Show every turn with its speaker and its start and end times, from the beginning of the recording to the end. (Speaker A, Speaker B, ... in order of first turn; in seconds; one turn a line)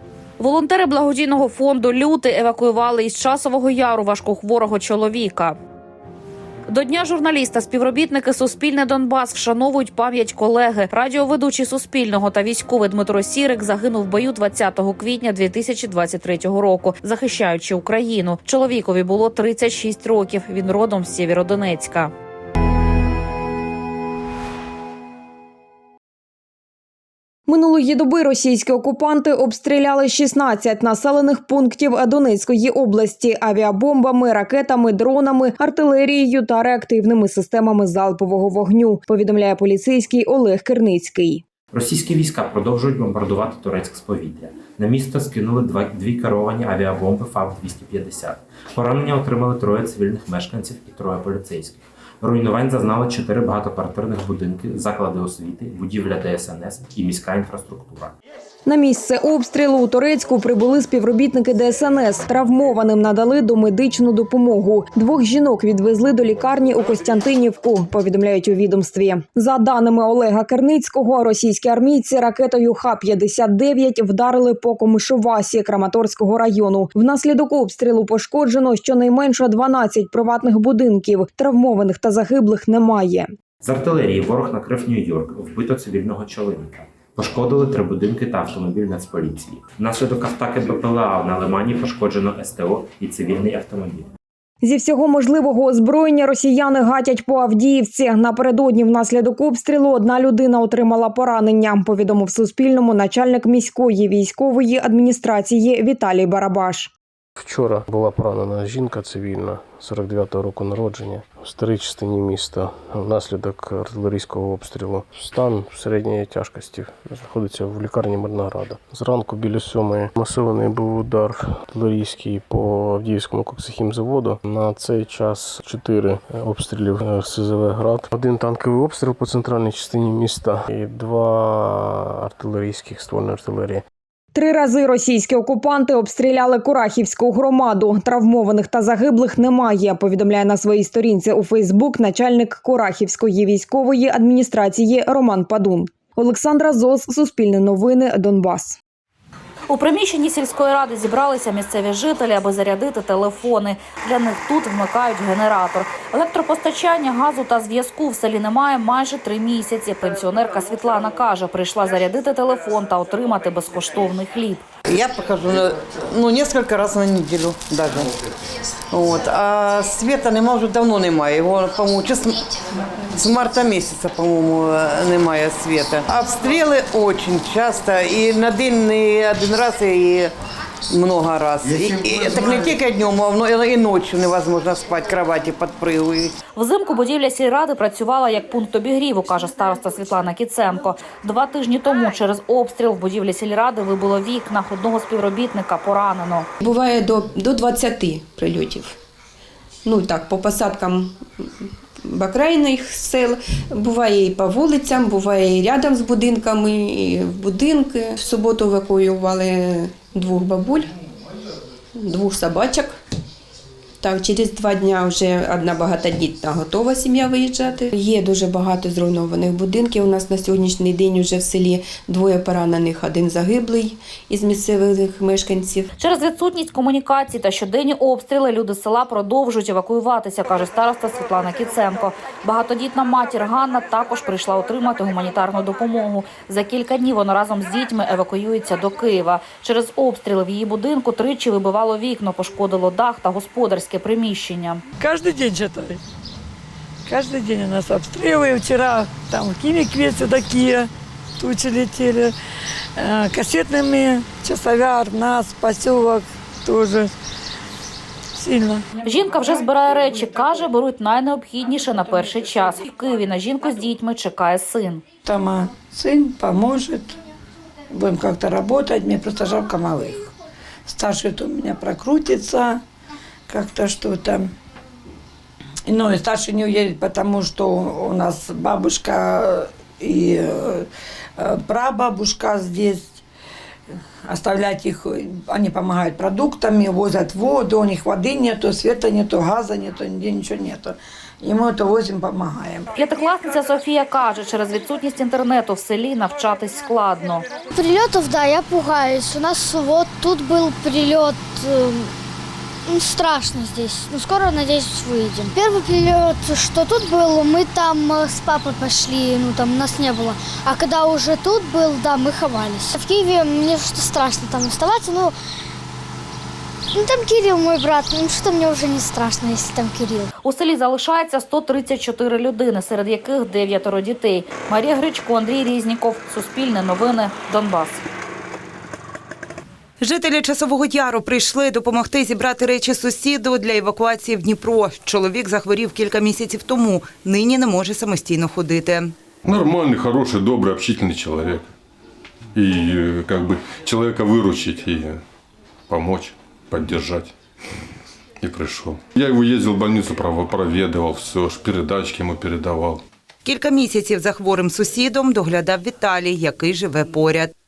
Speaker A: 0.4-5.5
Speaker A: 6.7-22.1
Speaker B: 27.5-41.4
Speaker C: 41.7-58.1
Speaker B: 58.6-83.3
Speaker C: 83.6-94.1
Speaker B: 94.6-106.9
Speaker D: 107.4-133.8
Speaker B: 134.3-148.8
Speaker A: 149.7-164.6
Speaker E: 164.9-168.1
Speaker E: 168.9-172.4
Speaker E: 173.1-180.3
Speaker E: 180.9-186.3
Speaker A: 186.6-196.5
Speaker F: 196.6-198.9
Speaker F: 199.8-201.2
Speaker F: 202.1-210.9
Speaker F: 212.0-212.9
Speaker F: 214.0-225.9
Speaker A: 226.0-244.8
Speaker G: 245.0-246.0
Speaker G: 247.1-252.3
Speaker G: 253.0-257.1
Speaker G: 258.4-258.8
Speaker A: 259.0-265.0
Speaker G: 265.2-267.1
Speaker G: 267.9-270.3
Speaker G: 270.9-272.8
Speaker G: 273.5-274.5
Speaker G: 275.9-280.9
Speaker G: 281.4-283.2
Speaker G: 284.2-292.9
Speaker A: 292.9-297.4
Speaker H: 305.0-306.5
Speaker H: 308.1-308.8
Speaker H: 309.5-310.3
Speaker H: 311.6-312.7
Speaker H: 314.8-315.1
Speaker H: 317.1-320.0
Speaker A: 320.4-328.0
Speaker I: 330.0-339.1
Speaker J: 339.4-341.7
Speaker J: 342.5-345.2
Speaker J: 345.9-347.3
Speaker J: 348.4-353.0
Speaker I: 353.4-357.5